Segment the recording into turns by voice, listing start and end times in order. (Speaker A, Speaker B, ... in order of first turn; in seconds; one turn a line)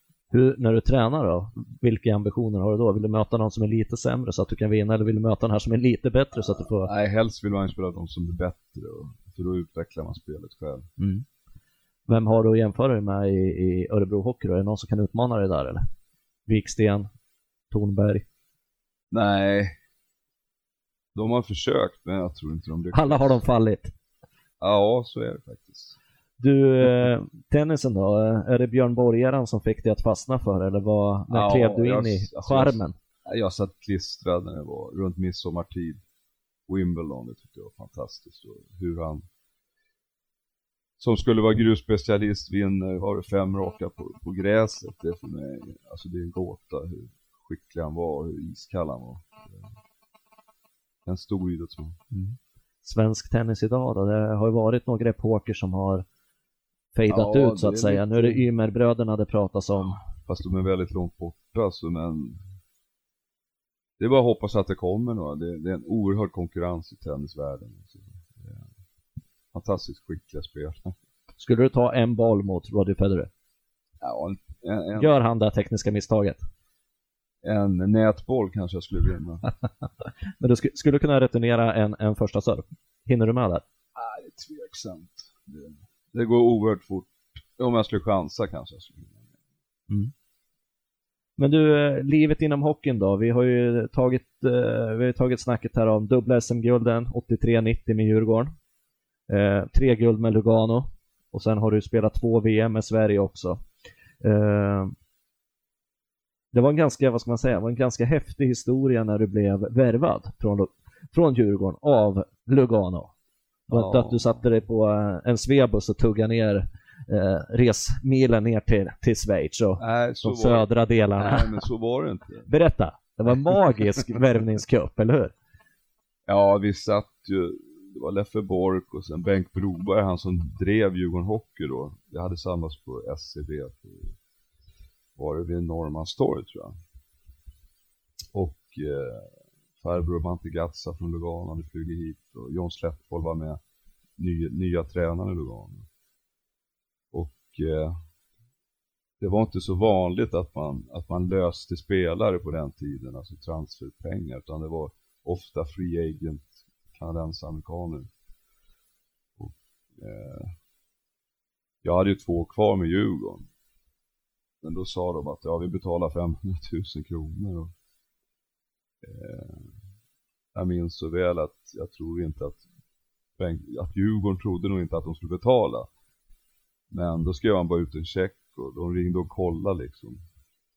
Speaker A: 0.3-6.9
Speaker B: 6.8-10.9
Speaker A: 11.0-11.2
Speaker A: 12.1-15.8
Speaker A: 16.5-17.1
Speaker A: 17.7-18.2
Speaker B: 19.1-19.7
Speaker B: 21.1-23.4
Speaker A: 22.9-23.9
Speaker B: 24.6-26.0
Speaker A: 26.4-32.9
Speaker B: 31.3-36.0
Speaker B: 36.7-39.3
Speaker B: 41.0-49.7
Speaker B: 51.1-52.0
Speaker A: 52.1-56.0
Speaker A: 56.9-60.0
Speaker B: 57.1-58.5
Speaker B: 60.3-62.4
Speaker B: 64.0-68.7
Speaker B: 69.5-71.0
Speaker A: 71.4-73.3
Speaker B: 74.0-75.2
Speaker A: 75.0-76.4
Speaker B: 77.4-79.5
Speaker A: 80.4-83.6
Speaker B: 84.0-89.3
Speaker A: 91.4-98.5
Speaker A: 99.3-103.6
Speaker A: 104.2-104.9
Speaker A: 106.5-113.1
Speaker A: 113.7-121.5
Speaker B: 113.7-114.4
Speaker B: 119.8-122.5
Speaker A: 122.5-125.3
Speaker B: 126.3-134.2
Speaker B: 135.2-136.8
Speaker B: 138.3-143.6
Speaker B: 144.2-145.9
Speaker B: 147.1-148.0
Speaker B: 149.2-158.1
Speaker B: 159.4-160.6
Speaker B: 161.8-163.5
Speaker B: 164.6-167.7
Speaker B: 169.0-169.8
Speaker B: 170.5-172.6
Speaker B: 173.4-175.9
Speaker B: 176.9-180.2